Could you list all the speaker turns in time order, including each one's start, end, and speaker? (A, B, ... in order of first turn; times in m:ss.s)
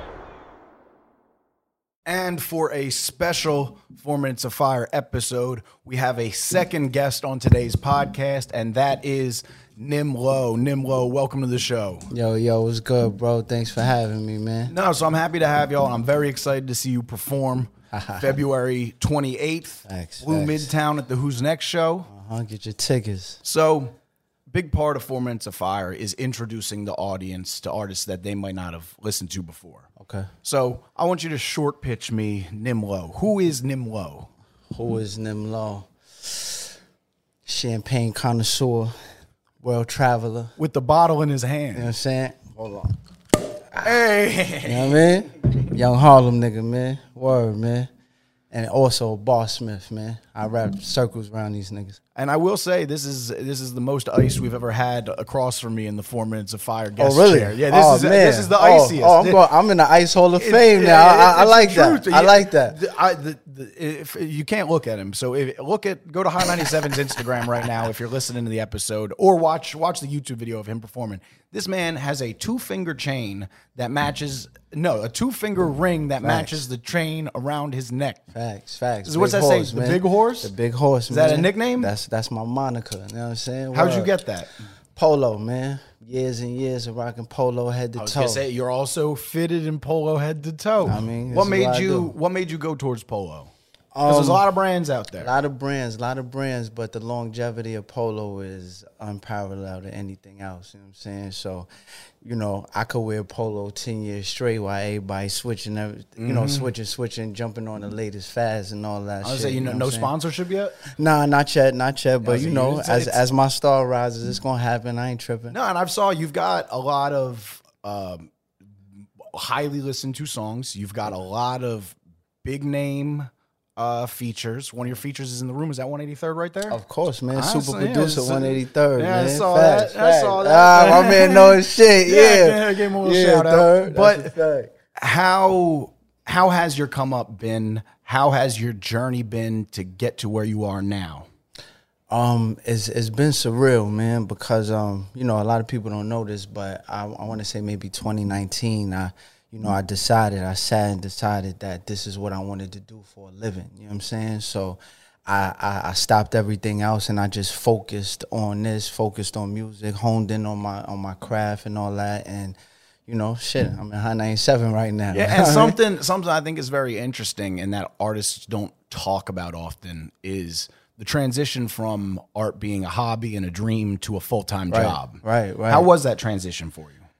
0:02.0-0:12.1 A
0:12.1-0:14.7 B
0:14.7-0:22.1 A
0:17.9-0:18.4 B
0:19.9-0:20.7 B
0:22.1-0:23.4 B
0:23.4-0:24.0 A
0:24.5-0:29.9 A
0:30.0-0:30.3 B
0:30.4-0:34.3 A
0:34.7-0:36.6 B
0:37.4-0:38.9 B
0:39.6-0:40.5 B
0:40.6-0:41.9 A
0:41.7-0:43.0 B
0:43.8-0:45.0 A
0:44.6-0:47.9 B
0:48.5-0:52.0 B
0:52.2-0:59.4 A
0:57.0-1:02.8 B
1:00.4-1:18.2 A
1:16.2-1:16.6 B
1:18.3-1:24.1 B
1:19.0-1:20.5 A
1:21.1-1:21.9 A
1:23.7-1:24.6 A
1:25.0-1:28.4 B
1:28.0-1:33.5 A
1:30.8-1:32.1 B
1:33.9-1:34.4 B
1:34.0-1:35.3 A
1:35.2-1:41.7 B
1:42.2-1:50.1 B
1:46.2-1:46.7 A
1:49.2-1:50.8 A
1:50.9-1:55.6 B
1:52.2-1:53.2 A
1:55.5-1:58.3 A
1:59.2-2:06.8 A
2:06.7-2:14.7 B
2:07.3-2:14.3 A
2:15.0-2:21.3 A
2:22.1-2:45.8 B
2:45.1-2:57.0 A
2:54.7-2:55.9 B